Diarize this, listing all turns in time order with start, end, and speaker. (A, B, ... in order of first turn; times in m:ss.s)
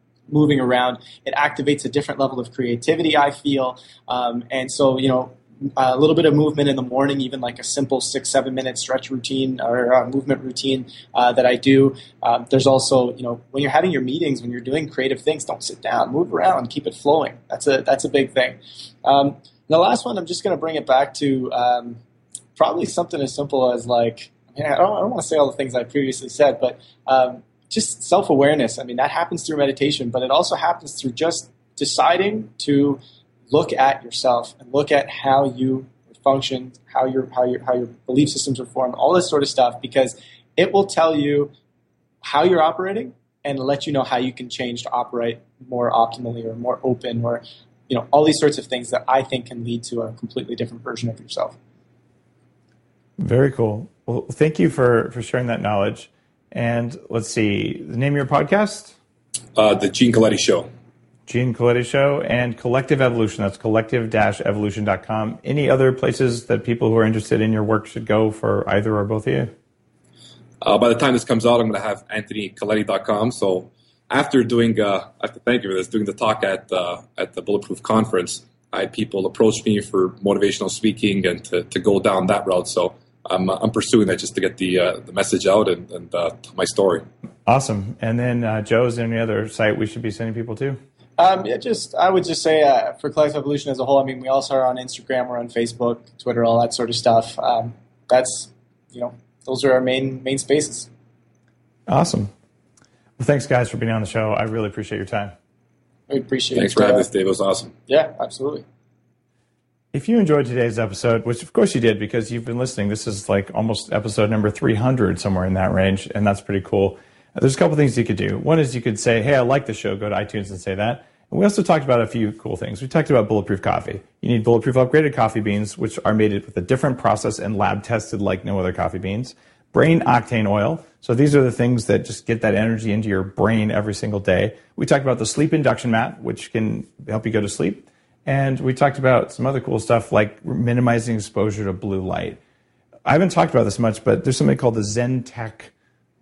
0:00.3-0:22.0 A
0:22.6-0:33.0 A
0:33.5-0:41.5 A
0:42.2-0:51.6 A
0:53.2-0:58.9 B
0:59.6-1:00.7 C
1:01.3-1:09.5 B
1:10.6-1:27.0 C
1:27.4-1:30.8 B
1:31.2-1:40.9 A
1:41.9-1:42.3 B
1:43.2-1:45.3 B
1:46.1-1:47.1 A
1:46.5-1:47.7 C
1:47.9-1:48.6 A
1:49.9-2:22.4 B
2:23.0-2:25.7 B